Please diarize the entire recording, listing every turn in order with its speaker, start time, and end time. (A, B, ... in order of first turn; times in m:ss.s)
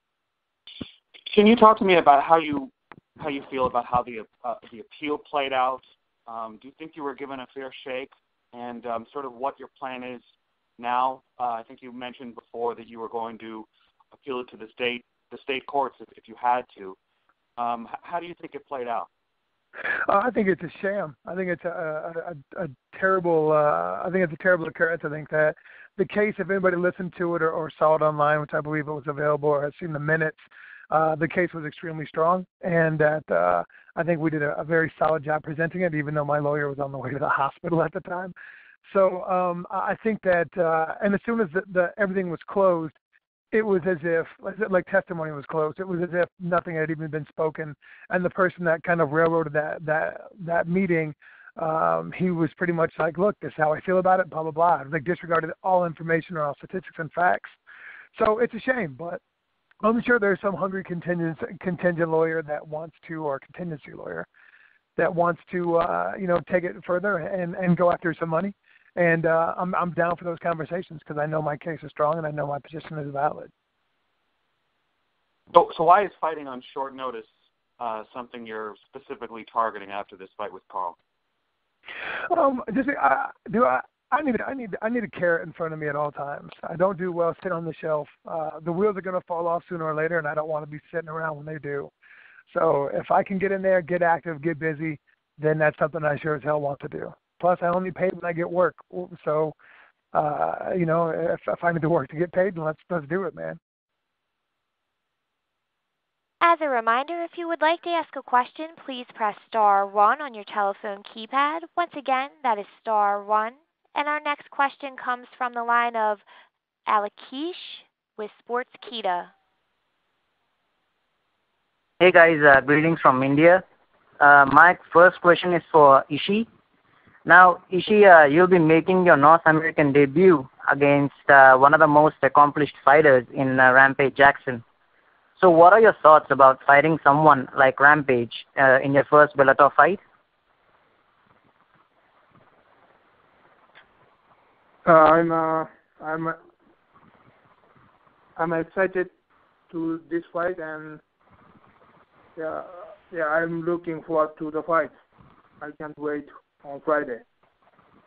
0:01.3-0:10.2 A
0:10.8-0:17.0 A
0:17.6-0:19.1 A
0:20.1-0:38.3 B
0:38.9-0:43.0 B
0:43.5-0:57.6 B
0:58.2-0:59.2 B
0:59.8-1:04.3 B
1:05.0-1:13.5 B
1:15.5-1:21.0 A
1:22.3-1:31.9 B
1:32.5-1:39.6 B
1:40.1-1:43.6 B
1:46.4-1:56.2 C
1:56.9-1:59.3 C
2:02.0-2:03.6 D
2:04.2-2:06.5 D
2:07.3-2:14.6 D
2:15.4-2:20.0 D
2:24.8-2:26.4 E
2:28.4-2:29.1 E
2:29.7-2:31.0 E
2:32.4-2:34.9 E
2:35.6-2:37.2 E